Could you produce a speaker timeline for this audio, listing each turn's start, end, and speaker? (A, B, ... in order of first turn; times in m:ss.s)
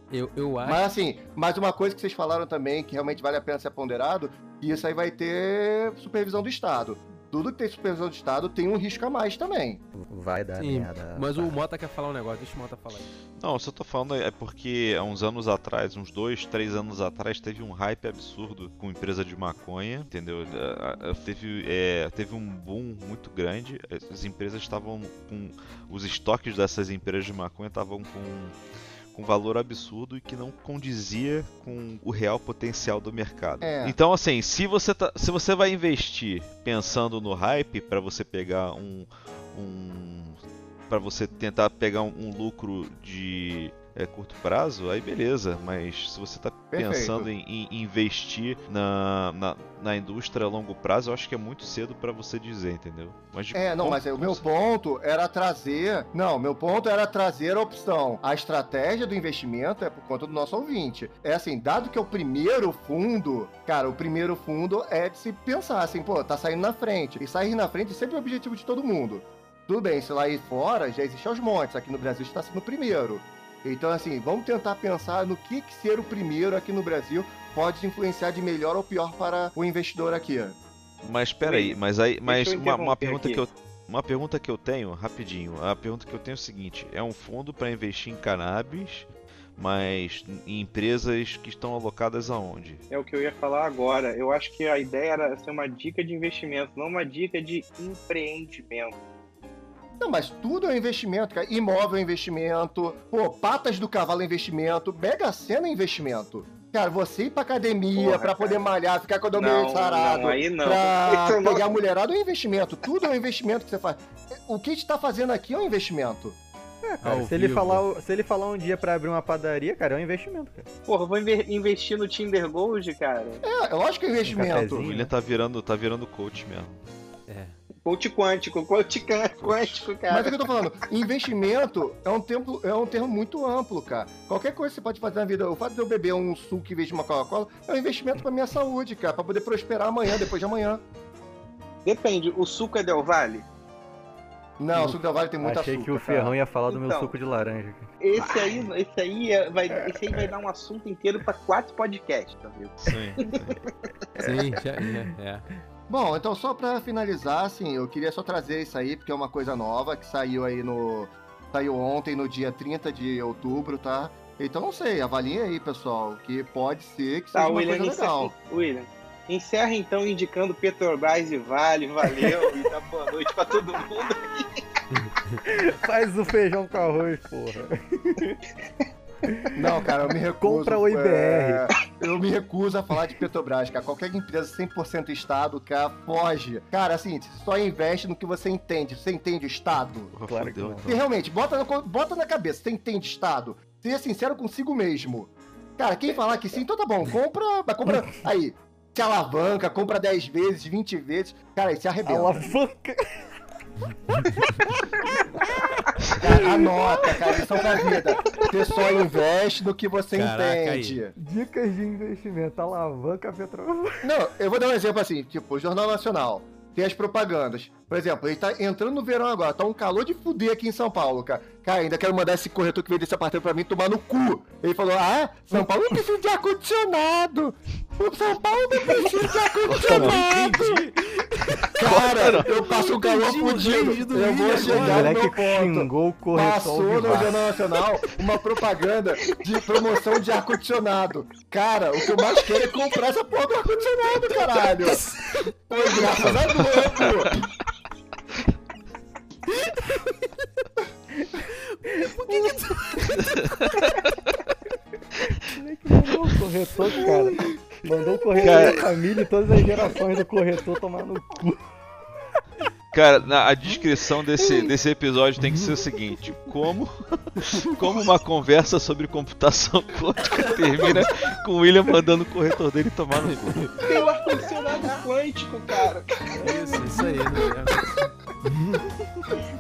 0:00.1-0:00.8 A
0:00.6-0:09.8 B
0:09.9-0:11.6 C
0:10.6-0:13.1 A
0:13.4-0:28.6 D
0:29.1-0:40.4 D
0:33.6-0:34.0 B
0:40.9-0:54.4 D
0:46.7-0:47.3 B
0:53.5-1:20.6 B
1:21.0-1:32.8 D
1:21.4-1:23.4 E
1:32.9-1:39.0 E
1:40.0-1:56.4 B
1:47.9-1:48.7 E
1:49.3-1:51.8 E
1:56.8-2:00.7 C
1:57.0-1:57.8 A
2:00.9-2:03.4 E
2:03.4-2:04.8 B
2:04.2-2:05.1 C
2:04.8-2:06.8 D
2:07.3-2:07.6 A
2:07.8-2:10.4 E
2:09.4-2:09.9 D
2:10.1-2:20.8 B
2:21.8-2:23.4 E
2:24.6-2:26.3 B
2:24.8-2:28.6 C
2:26.7-2:27.1 E
2:28.0-2:33.6 E
2:30.0-2:30.3 C
2:32.8-2:33.6 D
2:34.1-2:34.8 C
2:34.2-2:35.4 A
2:35.9-2:48.3 B
2:47.3-2:54.6 E
2:54.9-2:55.4 A
2:55.4-2:58.4 C
2:59.5-3:10.1 B
3:00.4-3:01.7 C
3:10.1-3:11.0 D
3:10.3-3:11.0 C
3:10.9-3:22.4 B
3:22.0-3:23.3 C
3:25.2-3:25.8 C
3:26.2-3:31.1 B
3:26.3-3:28.4 C
3:30.1-3:31.0 A
3:31.2-3:34.1 C
3:34.0-3:50.6 B
3:49.6-3:50.2 D
3:49.8-3:55.1 A
3:51.8-4:05.0 B
3:51.8-3:52.6 D
3:54.6-3:57.5 C
4:04.9-4:05.2 A
4:05.7-4:07.5 B
4:11.1-4:13.2 C
4:12.1-4:13.3 A
4:13.2-4:13.6 D
4:15.2-4:21.7 C
4:18.4-4:18.8 D
4:22.9-4:33.7 D
4:24.4-4:24.7 B
4:33.2-4:33.7 A
4:33.8-4:36.4 E
4:36.4-4:38.8 A
4:37.7-4:38.1 B